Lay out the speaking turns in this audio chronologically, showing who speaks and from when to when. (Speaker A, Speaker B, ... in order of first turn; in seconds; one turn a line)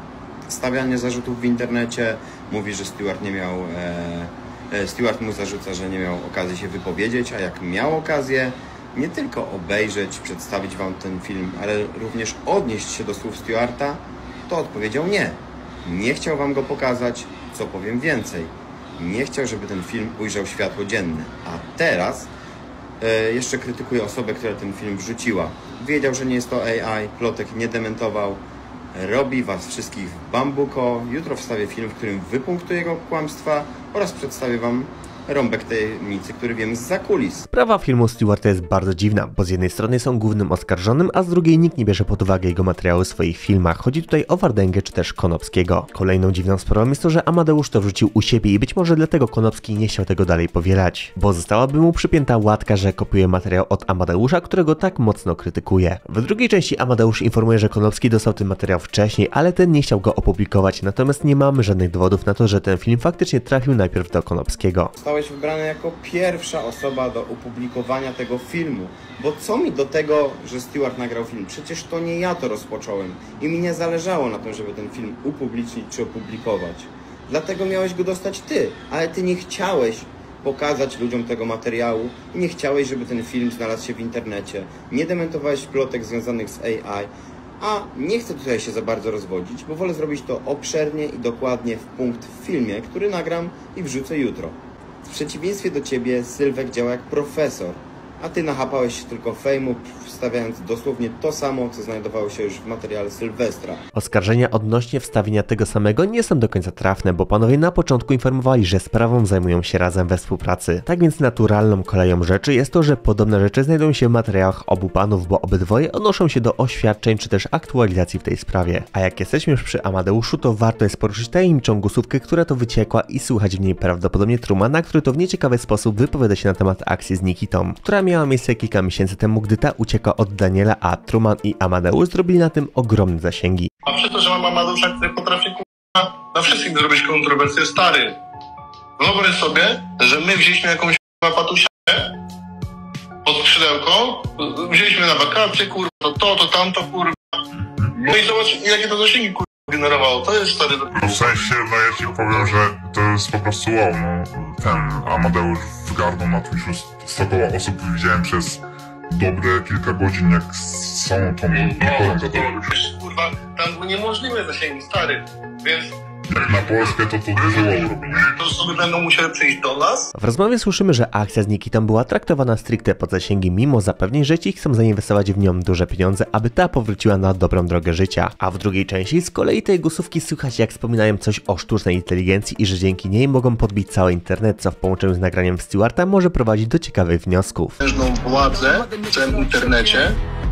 Speaker A: 0.5-22.3
Speaker A: 23.0-28.4
Speaker A: 28.9-37.5
Speaker B: 37.5-64.9
Speaker A: 65.0-103.8
Speaker B: 103.9-133.7
Speaker C: 133.8-138.2
Speaker C: 139.0-142.1
Speaker C: 143.2-147.4
Speaker D: 147.6-147.9
Speaker C: 147.9-151.5
Speaker D: 150.9-162.7
Speaker C: 161.5-170.1
Speaker D: 166.3-168.4
Speaker B: 170.1-187.8
Speaker C: 187.8-190.2